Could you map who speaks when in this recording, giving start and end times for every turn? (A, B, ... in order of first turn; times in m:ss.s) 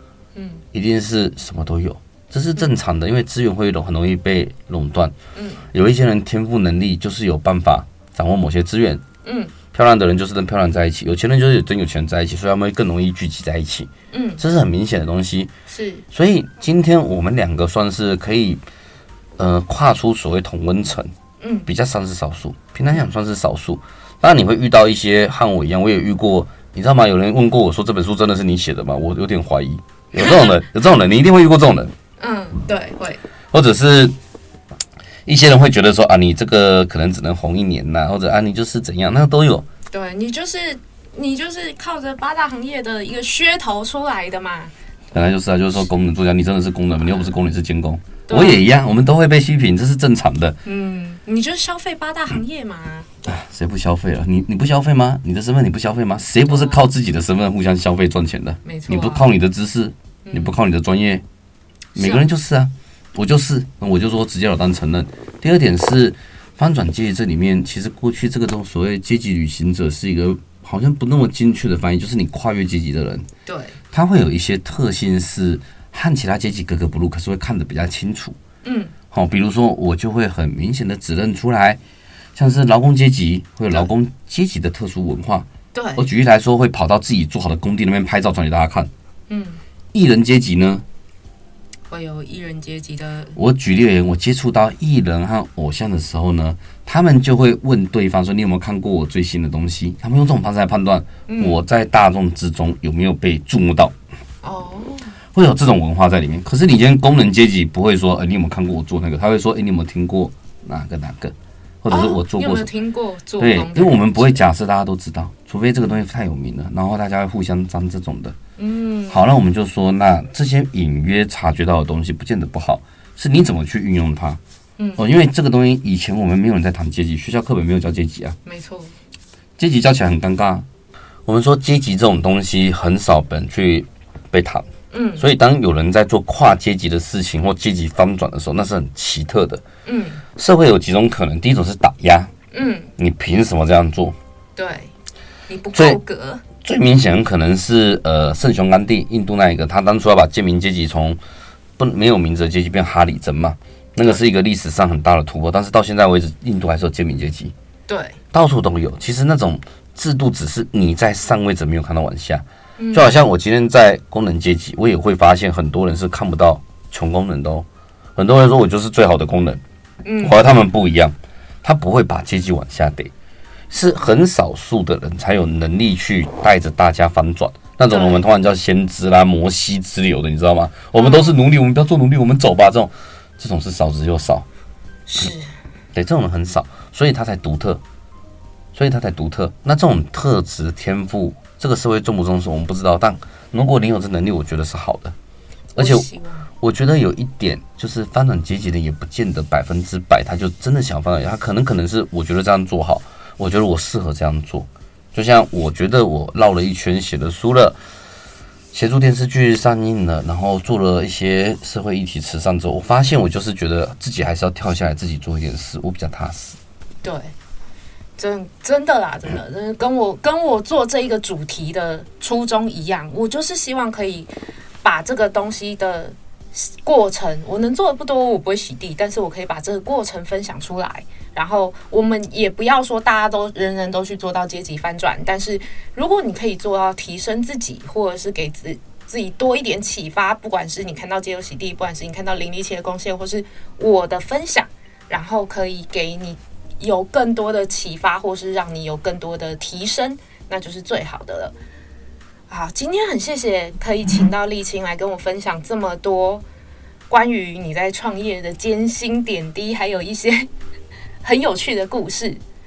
0:00.3-0:00.6 A
0:00.7-0:05.1 B
0:05.3-0:05.6 A
0:05.7-0:09.0 B
0:09.2-0:09.5 A
0:09.7-0:15.5 B
0:14.1-0:14.4 A
0:15.7-0:16.0 A
0:16.1-0:18.6 B
0:19.4-0:21.1 B
0:21.4-0:21.7 A
0:21.6-0:31.9 B
0:30.2-0:30.5 A
0:32.2-0:33.2 A
0:33.5-0:34.1 B
0:35.2-0:39.7 B
0:39.9-0:44.7 A
0:45.1-0:50.6 B
0:48.3-0:48.7 A
0:50.6-0:53.2 A
0:53.2-1:01.2 B
0:56.5-0:56.9 A
0:58.6-0:59.3 A
1:00.2-1:00.5 A
1:01.9-1:13.3 B
1:02.0-1:02.2 A
1:13.4-1:13.8 A
1:13.9-1:18.4 B
1:18.6-1:18.9 A
1:19.1-1:21.8 B
1:22.3-1:28.9 B
1:25.7-1:26.0 A
1:29.3-1:29.6 A
1:29.9-1:30.8 B
1:31.9-1:33.4 A
1:33.4-1:43.9 B
1:41.3-1:41.6 A
1:44.4-1:45.1 A
1:45.3-1:52.7 B
1:51.9-1:54.4 A
1:53.4-1:58.4 B
1:58.6-1:59.2 A
1:59.1-2:04.4 B
2:04.8-2:05.0 A
2:05.0-2:08.4 B
2:08.4-2:08.9 A
2:09.6-2:10.6 B
2:11.2-2:14.7 B
2:14.9-2:15.2 A
2:15.2-2:19.6 B
2:19.8-2:20.2 A
2:20.4-2:22.3 B
2:22.5-2:22.9 A
2:23.0-2:24.2 B
2:24.6-2:24.9 A
2:25.5-2:26.4 A
2:25.7-2:26.0 B
2:26.6-2:31.2 B
2:31.8-2:37.5 B
2:37.9-2:38.2 A
2:38.3-2:49.6 B
2:42.8-2:43.1 A
2:50.0-2:50.4 A
2:50.2-2:53.1 B
2:53.7-3:04.4 B
2:57.9-2:58.2 A
3:00.9-3:01.4 A
3:05.1-3:05.5 A
3:05.9-3:07.8 B
3:08.7-3:15.1 B
3:15.8-3:16.1 B
3:15.8-3:16.5 A
3:16.6-3:27.8 B
3:28.7-3:36.6 B
3:37.0-3:37.3 A
3:38.2-3:44.3 A
3:44.8-4:11.5 A
4:12.5-4:16.4 A
4:17.1-4:20.5 A
4:21.2-4:22.4 A